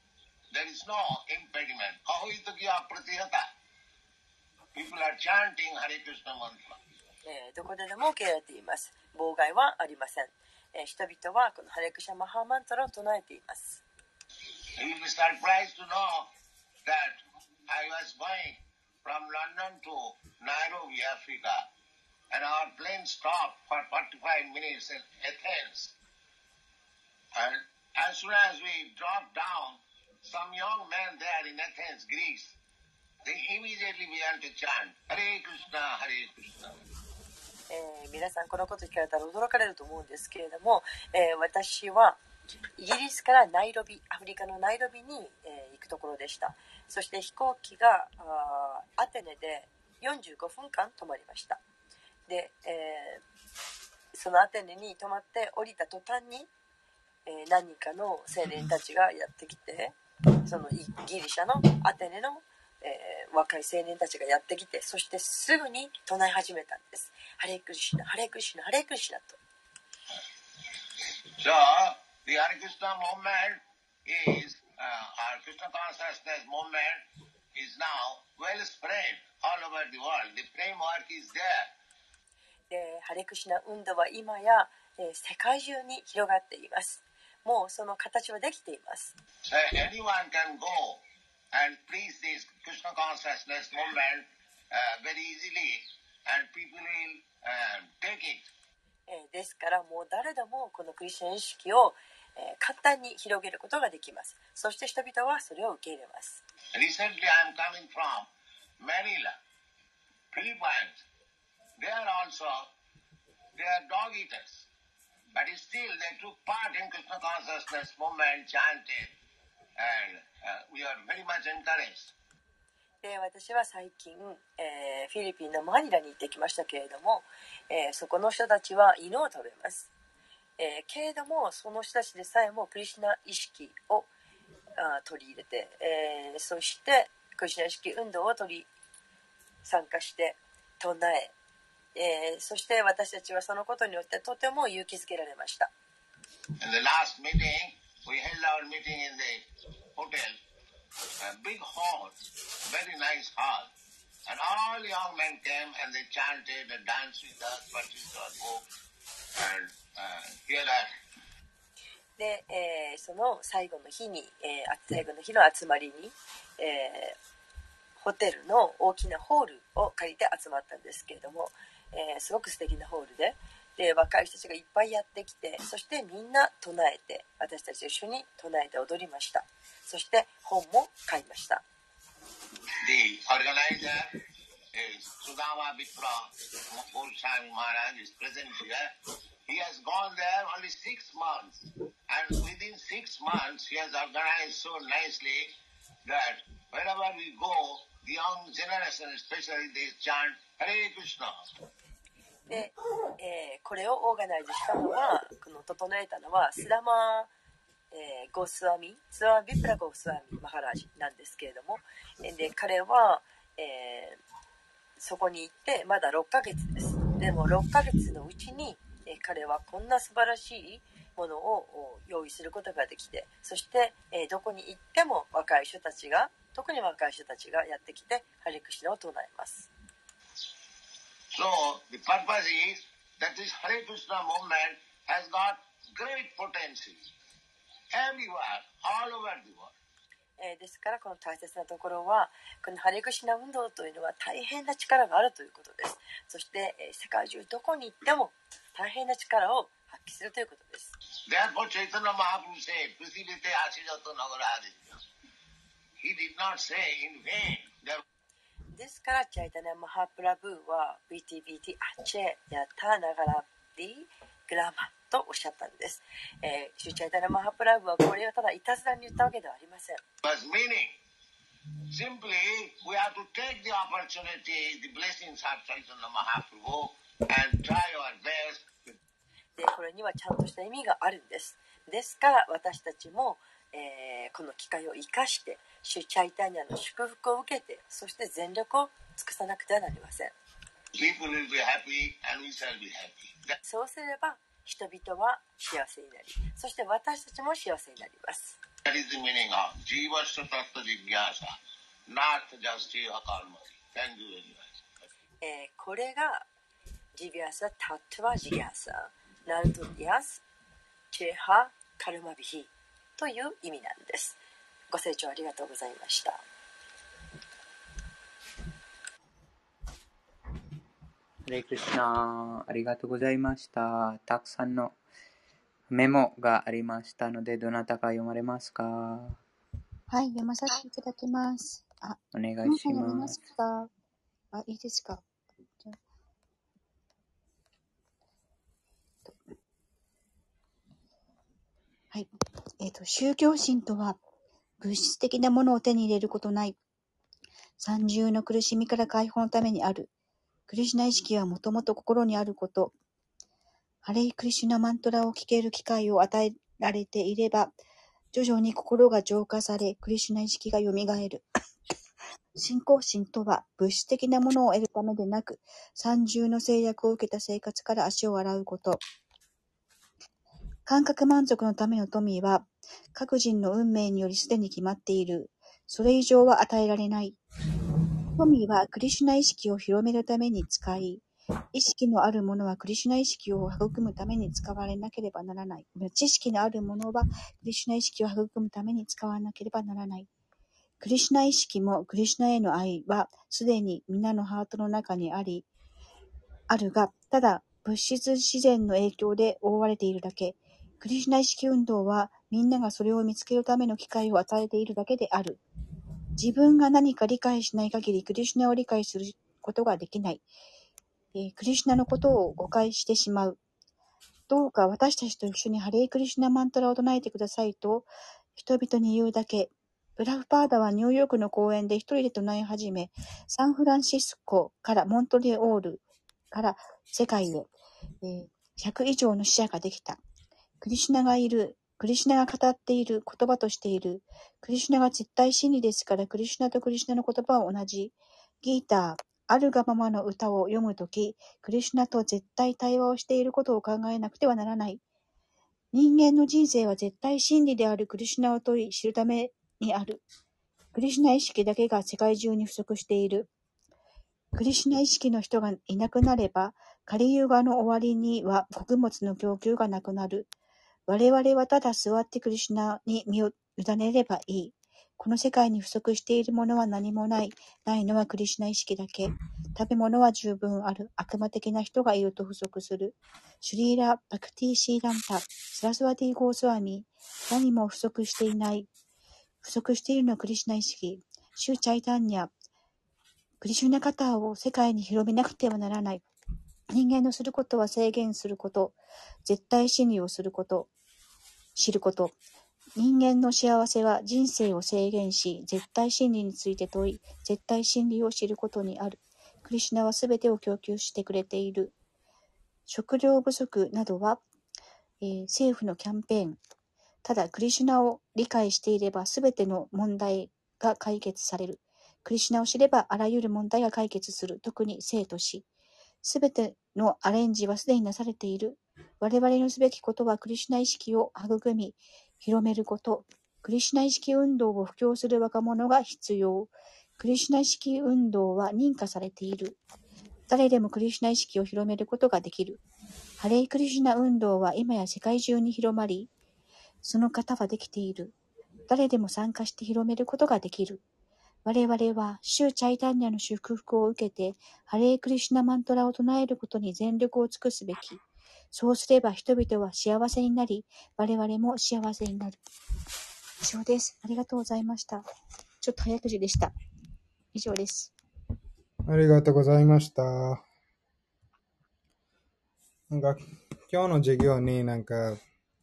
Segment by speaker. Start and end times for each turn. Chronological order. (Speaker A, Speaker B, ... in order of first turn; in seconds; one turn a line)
Speaker A: 0.5-3.5
Speaker A: 4.8-6.8
Speaker B: 7.2-13.8
Speaker A: 14.8-16.3
Speaker A: 16.9-21.7
Speaker A: 22.3-25.9
Speaker A: 27.4-32.6
Speaker A: 33.2-36.8
Speaker B: 37.7-42.2
Speaker B: 42.8-51.6
Speaker B: 52.3-53.2
Speaker B: 54.1-56.5
Speaker B: 57.3-69.4
Speaker A: 71.4-81.7
Speaker B: 82.7-89.1
Speaker A: 89.5-98.5
Speaker B: 99.1-106.4
Speaker A: 106.8-108.3
Speaker A: 108.8-109.4
Speaker A: 110.3-111.1
Speaker A: 111.8-112.7
Speaker A: 113.6-114.7
Speaker A: 115.3-119.2
Speaker A: 119.8-122.1
Speaker B: 123.0-129.9
Speaker B: 130.6-134.1
Speaker B: 134.8-138.7
Speaker B: 139.6-141.3
Speaker B: 142.0-145.7
Speaker A: 146.6-150.4
Speaker A: 151.2-152.2
Speaker A: 152.7-153.7
Speaker A: 154.3-158.7
Speaker A: 159.4-160.9
Speaker B: 162.2-167.2
Speaker B: 168.0-181.6
Speaker A: 182.8-184.2
Speaker A: 184.7-188.9
Speaker A: 189.5-195.5
Speaker A: 196.1-201.4
Speaker B: 202.5-207.3
Speaker B: 207.9-214.2
Speaker B: 215.0-229.7
Speaker A: 231.3-237.1
Speaker A: 237.9-239.7
Speaker B: 240.4-250.9
Speaker A: 251.3-255.0
Speaker A: 256.0-258.0
Speaker B: 258.7-270.0
Speaker A: 270.2-271.0
Speaker A: 271.9-278.7
Speaker B: 279.6-290.3
Speaker A: 290.9-293.6
Speaker B: 293.6-298.6
Speaker A: 298.9-301.6
Speaker A: 302.1-304.8
Speaker B: 305.4-306.5
Speaker B: 307.1-310.4
Speaker B: 311.1-314.4
Speaker B: 314.9-316.4
Speaker C: 321.5-325.0
Speaker C: 325.9-329.4
Speaker D: 330.1-333.9
Speaker C: 332.3-333.4
Speaker D: 334.5-335.2
Speaker D: 342.1-344.2
Speaker D: 344.8-346.8
Speaker D: 347.8-350.1
Speaker D: 350.7-352.9
Speaker D: 354.0-357.8
Speaker D: 358.3-361.5
Speaker D: 362.6-369.0
Speaker D: 370.9-377.4
Speaker D: 378.3-390.3
Speaker D: 391.0-395.7
Speaker D: 396.7-405.6
Speaker D: 406.4-410.5
Speaker D: 411.3-413.6
Speaker D: 414.5-427.7
Speaker D: 428.2-430.2
Speaker D: 430.8-445.0
Speaker D: 445.9-450.2
Speaker D: 450.9-453.5
Speaker D: 454.5-460.5
Speaker D: 461.1-478.9
Speaker D: 479.6-482.5
Speaker D: 483.6-486.2
Speaker D: 486.9-490.9
Speaker D: 491.8-492.4
Speaker D: 493.0-501.9
Speaker D: 502.9-504.4
Speaker D: 505.2-506.6
Speaker D: 507.2-515.7
Speaker D: 516.2-529.8
Speaker D: 530.5-532.8
Speaker D: 533.4-536.3
Speaker D: 537.0-538.4
Speaker D: 538.9-541.0
Speaker D: 541.6-548.2
Speaker D: 548.7-552.6
Speaker D: 553.6-555.3
Speaker D: 555.8-556.7
Speaker D: 557.5-558.1
Speaker E: 559.1-560.6
Speaker E: 563.1-565.4